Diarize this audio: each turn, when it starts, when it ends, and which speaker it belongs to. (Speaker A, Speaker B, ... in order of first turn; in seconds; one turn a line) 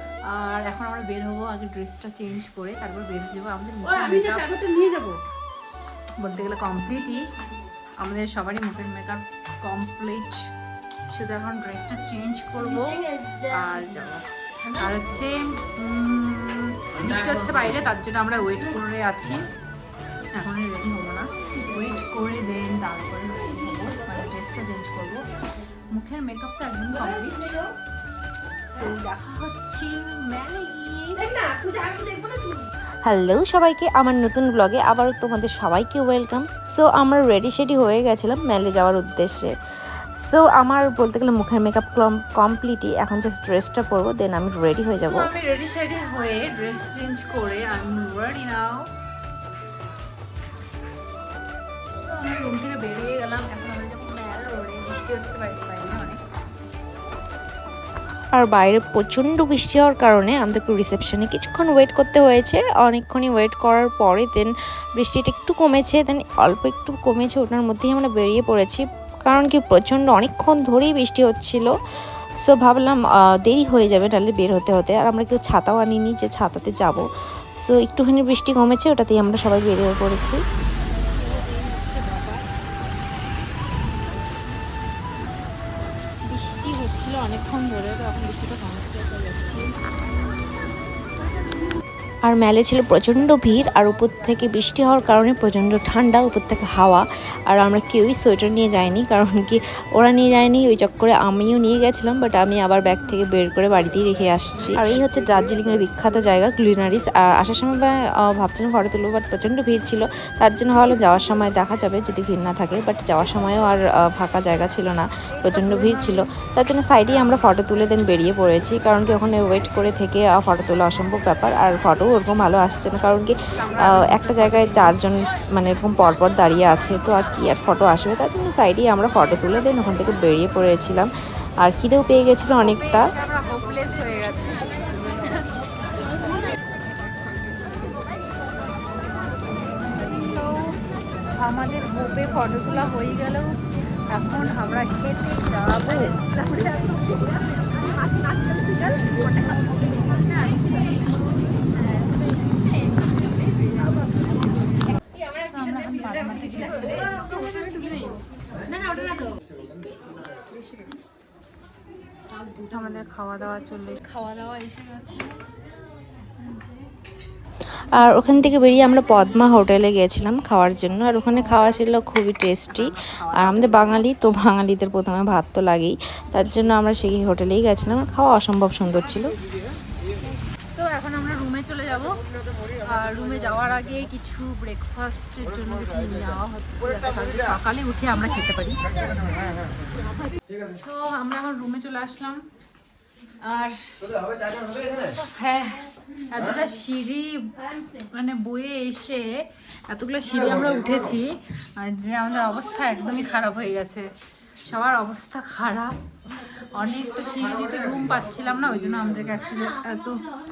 Speaker A: 0.3-5.2
Speaker A: 6.2-7.2
Speaker A: 8.0-10.4
Speaker A: 11.1-19.4
Speaker A: 20.4-25.2
Speaker A: 25.9-27.6
Speaker A: 28.7-31.3
Speaker B: 33.0-39.5
Speaker B: 40.2-45.3
Speaker A: 45.0-48.8
Speaker A: 52.0-56.2
Speaker B: 58.3-71.7
Speaker B: 72.4-77.0
Speaker B: 77.6-80.4
Speaker A: 81.1-82.5
Speaker A: 86.3-89.7
Speaker B: 92.2-131.1
Speaker A: 102.8-103.2
Speaker A: 115.5-116.2
Speaker A: 117.1-117.5
Speaker A: 123.5-125.0
Speaker B: 131.6-133.1
Speaker A: 132.4-135.5
Speaker A: 139.9-140.7
Speaker A: 141.4-143.6
Speaker A: 144.1-146.9
Speaker A: 148.9-150.7
Speaker A: 155.1-158.2
Speaker A: 162.7-165.4
Speaker A: 166.4-166.9
Speaker B: 167.9-179.3
Speaker A: 168.0-168.4
Speaker A: 172.7-174.0
Speaker A: 180.7-188.8
Speaker A: 190.6-192.4
Speaker A: 193.4-193.9
Speaker A: 195.1-204.1
Speaker A: 204.7-205.9
Speaker A: 206.8-210.2